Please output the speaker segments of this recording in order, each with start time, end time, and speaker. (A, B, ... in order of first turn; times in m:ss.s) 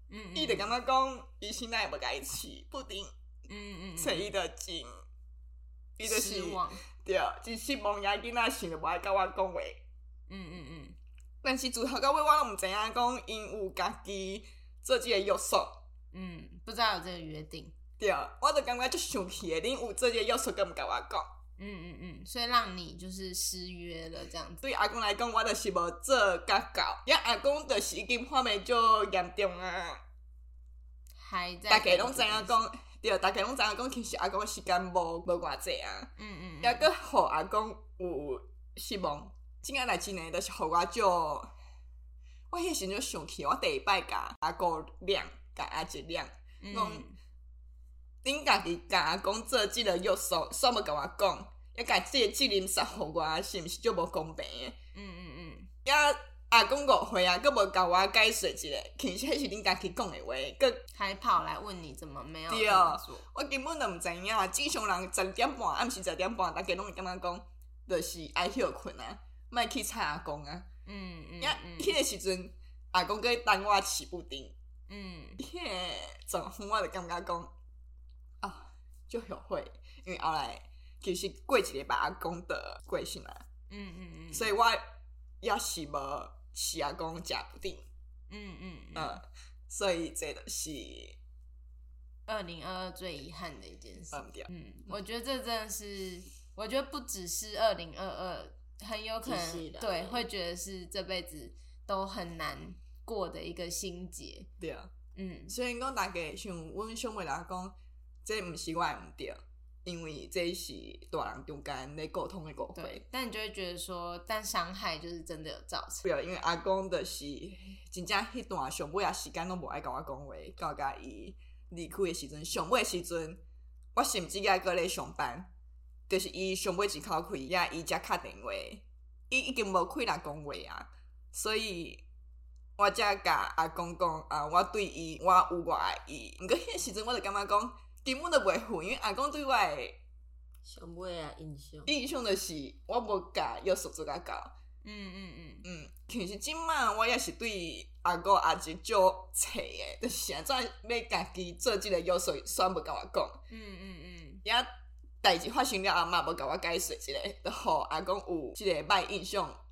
0:00.1-0:00.7 A
0:00.3-0:03.1 B
0:03.5-0:04.3 A
0:04.0-0:05.0 B
0:06.0-0:09.8 B
0:06.0-0:06.8 A
0:10.3-0:11.0 A
0:11.4-0:15.8 B
0:16.1-0:17.7 A
0:18.0-0:21.2 B
0:21.6-0:24.6 A
0:24.6-0:30.0 B
0:31.2-0:32.6 A
0:31.7-0:36.1 B
0:36.2-0:36.9 A
0:36.6-0:41.5 B
0:42.5-0:47.1 B
0:46.6-0:47.2 A
0:48.2-0:54.8 B
0:54.9-0:55.7 A
0:55.8-1:00.8 B
1:00.9-1:03.2 A
1:02.5-1:10.7 B
1:10.8-1:12.0 A
1:11.4-1:14.5 B
1:14.9-1:15.4 A
1:15.4-1:17.5 B
1:18.4-1:23.4 B
1:23.7-1:24.5 A
1:24.3-1:24.8 B
1:25.4-1:27.8 B
1:28.3-1:29.2 A
1:29.0-1:31.2 B
1:32.3-1:44.5 A
1:34.1-1:34.5 B
1:39.2-1:40.2 C
1:44.6-1:44.9 B
1:45.1-1:45.5 A
1:45.5-1:53.0 B
1:52.7-1:56.0 A
1:56.0-2:03.4 B
2:03.9-2:05.5 B
2:06.1-2:12.0 B
2:12.8-2:20.0 B
2:20.6-2:21.9 C
2:21.9-2:24.5 B
2:24.8-2:25.6 A
2:25.6-2:33.4 B
2:33.5-2:34.4 A
2:35.2-2:39.6 B